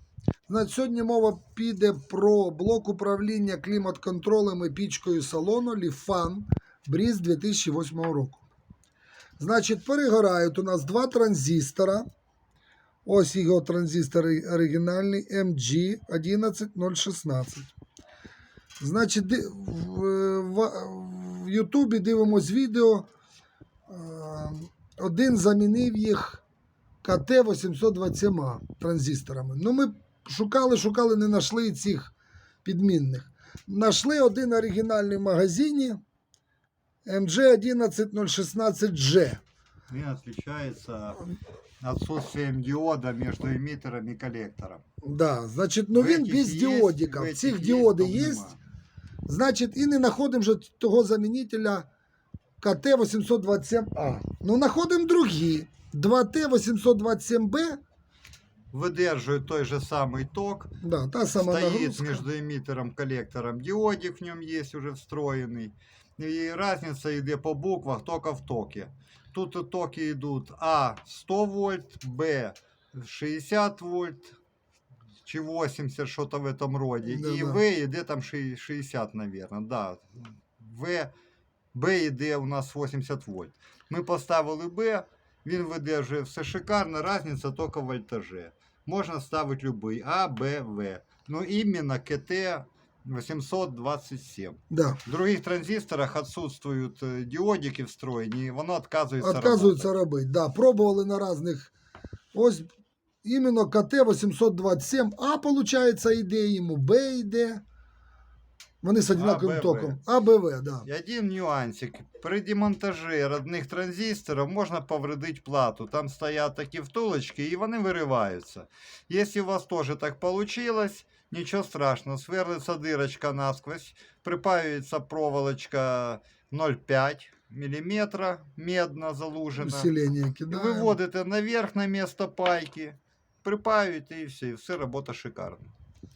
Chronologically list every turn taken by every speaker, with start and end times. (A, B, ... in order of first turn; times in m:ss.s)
0:00.5-0:08.4 A
0:09.4-0:12.0 A
0:13.0-0:17.7 A
0:18.8-0:23.1 A
0:23.9-0:26.4 A
0:27.0-0:32.1 A
0:32.6-0:36.0 A
0:37.0-0:39.4 A
0:39.9-0:44.8 B
0:45.0-0:48.5 A
0:45.9-0:48.6 B
0:49.2-0:51.8 A
0:52.6-0:57.8 A
0:58.7-1:00.7 B
1:00.8-1:02.2 A
1:01.4-1:14.4 B
1:15.2-1:21.1 B
1:17.0-1:17.6 A
1:21.7-1:39.9 B
1:34.7-1:35.0 A
1:39.2-1:41.7 A
1:42.3-1:42.7 A
1:43.2-1:47.6 A
1:48.8-1:50.8 A
1:49.1-1:50.0 B
1:50.8-2:09.9 B
2:09.6-2:11.0 A
2:10.5-2:15.7 B